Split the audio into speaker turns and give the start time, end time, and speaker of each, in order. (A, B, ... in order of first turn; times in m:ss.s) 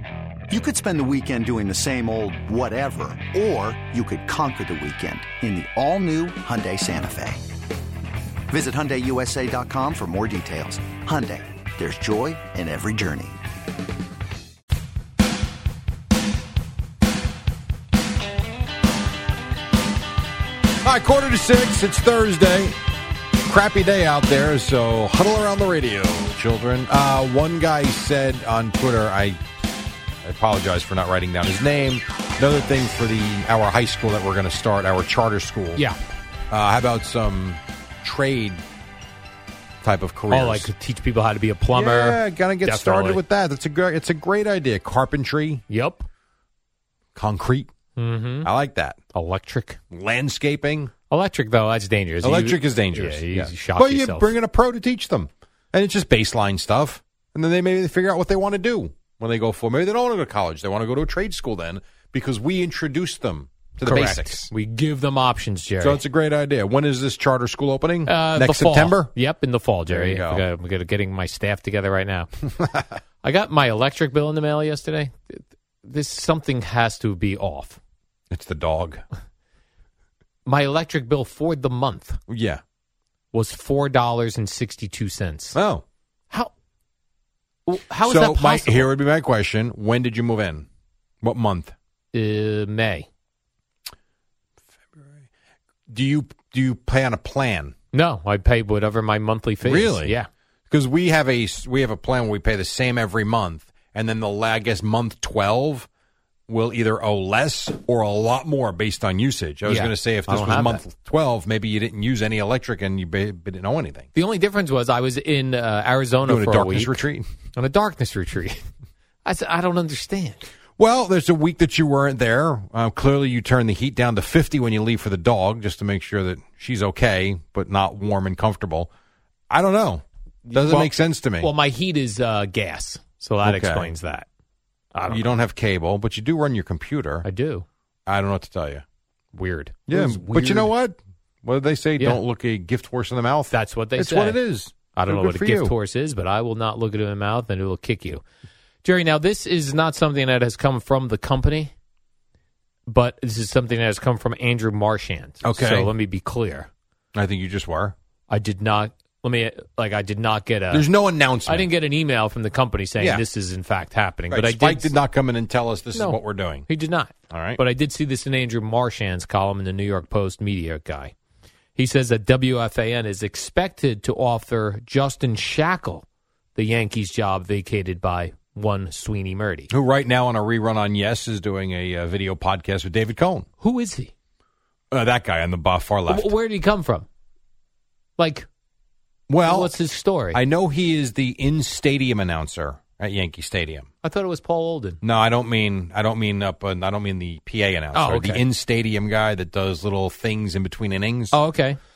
0:00.5-0:07.4 A
0:08.5-0:13.4 A
0:20.8-0:22.8 B
0:23.4-0:29.4 B
0:30.2-0:35.8 B
0:36.5-0:38.6 B
0:39.8-0:40.7 B
0:40.3-0:43.2 C
0:41.7-0:45.6 B
0:45.7-0:46.0 C
0:47.2-0:47.7 B
0:48.0-0:48.5 C
0:48.4-0:49.0 B
0:49.1-0:49.8 C
0:49.9-0:50.9 B
0:51.1-0:54.3 C
0:52.2-1:04.5 B
1:03.8-1:06.0 C
1:05.8-1:09.1 B
1:08.1-1:12.3 C
1:09.9-1:10.4 B
1:12.6-1:12.9 B
1:13.2-1:17.8 C
1:18.3-1:19.0 B
1:20.4-1:22.2 C
1:22.3-1:22.6 B
1:23.3-1:25.6 C
1:25.5-1:25.8 B
1:27.7-1:28.9 C
1:28.0-1:30.7 B
1:31.2-1:31.7 B
1:32.1-1:33.1 C
1:35.9-1:37.7 B
1:37.9-1:40.3 C
1:39.6-1:40.1 B
1:40.7-1:45.9 B
1:46.5-1:54.1 B
1:49.6-1:50.8 C
1:54.1-1:57.0 C
1:56.2-1:57.2 B
1:57.5-1:58.6 C
1:59.2-2:00.5 C
2:00.8-2:08.9 B
2:09.5-2:11.5 B
2:10.5-2:14.2 C
2:13.4-2:13.9 B
2:14.9-2:15.3 C
2:15.1-2:17.2 B
2:17.2-2:17.6 C
2:18.1-2:18.8 B
2:19.3-2:20.7 C
2:19.9-2:25.7 B
2:23.5-2:28.2 C
2:28.8-2:31.7 C
2:32.9-2:36.7 C
2:35.4-2:35.9 B
2:37.1-2:37.9 B
2:38.3-2:40.9 C
2:40.7-2:41.7 B
2:41.4-2:44.9 C
2:44.3-2:46.6 B
2:45.9-2:51.1 C
2:47.3-2:47.6 B
2:51.8-2:59.7 C
2:59.7-3:03.4 B
3:03.6-3:04.1 C
3:04.9-3:06.3 B
3:06.1-3:07.0 C
3:08.2-3:08.5 C
3:09.3-3:09.7 B
3:09.4-3:10.4 C
3:10.3-3:13.9 B
3:14.0-3:15.0 C
3:15.0-3:21.4 B
3:17.9-3:18.4 C
3:21.3-3:21.8 C